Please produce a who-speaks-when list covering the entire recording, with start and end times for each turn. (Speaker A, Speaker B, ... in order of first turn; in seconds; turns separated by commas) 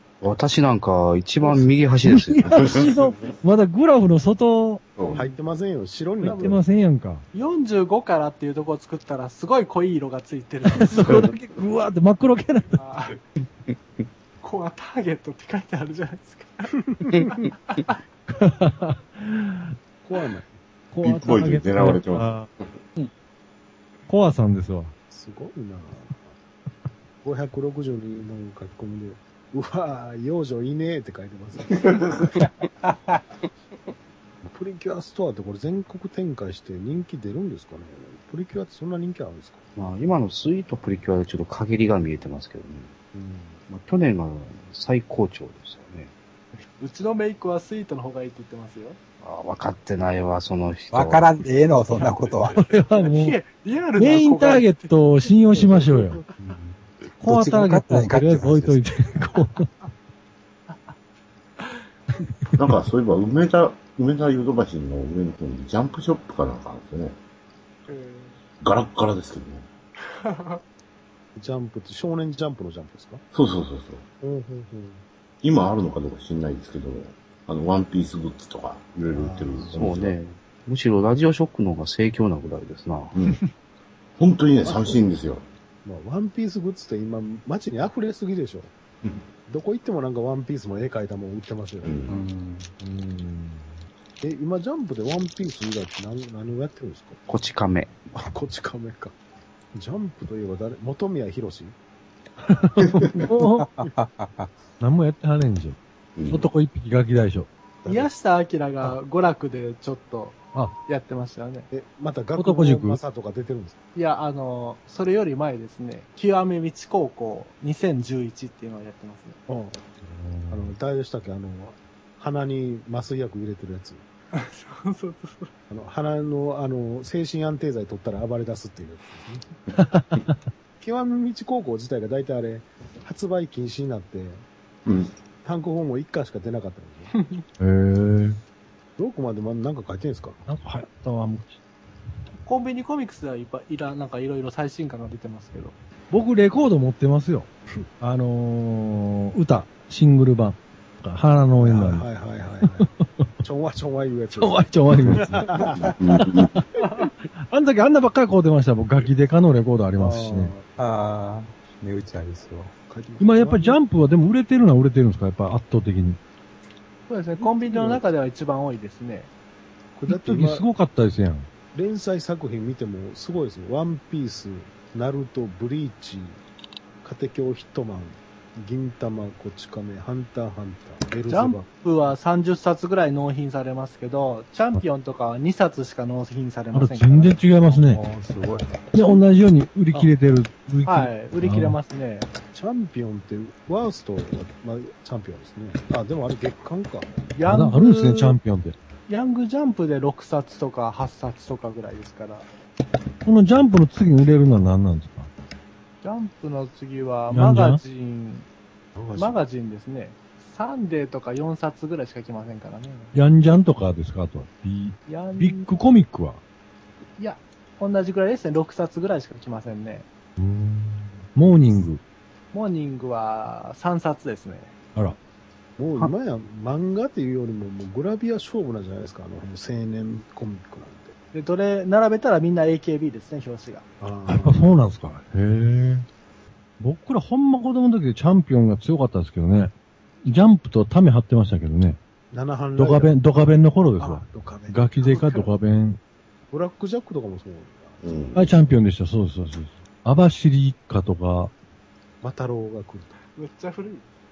Speaker A: 0.2-2.5, Speaker B: 2.0-4.8, Speaker C: 2.6-3.0, Speaker C: 5.0-5.2, Speaker D: 5.1-6.6, Speaker B: 6.2-7.2, Speaker E: 7.3-11.2, Speaker B: 10.7-12.8, Speaker E: 12.8-13.2, Speaker E: 14.4-16.7, Speaker D: 16.9-17.2, Speaker E: 17.2-18.0, Speaker B: 18.3-19.8, Speaker D: 20.0-20.5, Speaker B: 20.9-22.5, Speaker C: 21.0-22.8, Speaker B: 24.1-24.9, Speaker D: 25.1-26.3, Speaker D: 27.2-31.9, Speaker C: 31.7-32.3, Speaker F: 32.8-33.2, Speaker D: 34.4-39.6, Speaker A: 39.8-42.9, Speaker D: 43.1-43.6, Speaker A: 43.7-46.1, Speaker E: 46.8-49.0, Speaker A: 49.2-51.3, Speaker F: 50.9-52.6, Speaker B: 52.6-53.4, Speaker E: 52.9-55.4, Speaker B: 54.0-56.2, Speaker B: 57.2-59.7, Speaker F: 57.2-58.8, Speaker C: 62.6-67.2, Speaker E: 67.9-68.4, Speaker C: 68.6-69.7, Speaker E: 70.1-70.6, Speaker D: 71.4-73.2, Speaker C: 73.3-74.0, Speaker D: 74.2-75.0, Speaker C: 75.4-80.2, Speaker D: 79.1-79.8, Speaker A: 79.7-83.2, Speaker C: 83.2-83.4, Speaker C: 84.2-85.5, Speaker D: 84.6-85.0, Speaker D: 85.8-88.7, Speaker D: 89.5-92.0, Speaker C: 91.8-92.2, Speaker F: 92.1-92.7, Speaker B: 92.8-93.8, Speaker D: 94.2-97.2, Speaker A: 97.3-97.9, Speaker D: 98.1-99.1, Speaker D: 99.7-101.8, Speaker B: 102.4-103.7, Speaker F: 103.6-104.5, Speaker B: 104.8-105.8, Speaker C: 106.2-106.5, Speaker B: 106.3-107.5, Speaker D: 107.8-108.1, Speaker E: 107.9-111.7, Speaker D: 111.7-113.8, Speaker B: 112.4-113.0, Speaker E: 114.0-119.4, Speaker D: 119.5-119.8, Speaker B: 120.0-120.7, Speaker D: 120.5-124.0, Speaker E: 124.3-125.5, Speaker D: 125.7-129.5, Speaker B: 129.8-130.4, Speaker D: 130.8-134.4, Speaker C: 134.9-135.1, Speaker D: 135.4-137.1, Speaker E: 137.1-137.4, Speaker B: 137.6-138.4, Speaker D: 139.0-140.4, Speaker B: 140.5-141.6, Speaker E: 142.4-145.8, Speaker B: 146.1-152.1, Speaker D: 151.6-152.9, Speaker B: 152.8-153.3, Speaker D: 153.4-155.9, Speaker B: 154.3-155.6, Speaker C: 155.8-156.6, Speaker B: 156.2-156.7, Speaker E: 156.8-157.1, Speaker B: 157.3-160.5, Speaker D: 160.0-160.7, Speaker F: 160.8-162.7, Speaker D: 162.9-163.8, Speaker B: 163.2-166.2, Speaker E: 167.1-169.3, Speaker D: 167.4-168.0, Speaker D: 170.0-170.7, Speaker B: 170.1-171.5, Speaker D: 171.7-176.4, Speaker D: 177.0-181.7, Speaker E: 181.3-187.7, Speaker B: 186.7-188.0, Speaker F: 187.9-188.6, Speaker B: 188.9-191.8, Speaker E: 190.9-192.3, Speaker D: 192.5-197.3, Speaker E: 197.3-198.4, Speaker B: 197.4-198.8, Speaker E: 199.1-202.5, Speaker B: 203.2-205.3, Speaker E: 206.0-208.5, Speaker B: 207.3-207.8, Speaker D: 208.9-209.4, Speaker E: 209.2-213.2, Speaker B: 213.1-216.4, Speaker E: 215.1-215.7, Speaker E: 217.2-220.1, Speaker B: 220.4-222.0, Speaker E: 222.5-224.7, Speaker D: 225.8-231.2, Speaker E: 231.3-233.9, Speaker D: 234.0-234.6, Speaker B: 234.3-236.1, Speaker B: 236.8-239.7, Speaker B: 240.2-242.0, Speaker D: 242.3-243.1, Speaker B: 242.8-246.0, Speaker D: 244.0-245.5, Speaker D: 246.5-248.0, Speaker C: 248.0-248.6, Speaker B: 248.3-251.5, Speaker D: 252.2-253.2, Speaker E: 253.2-254.1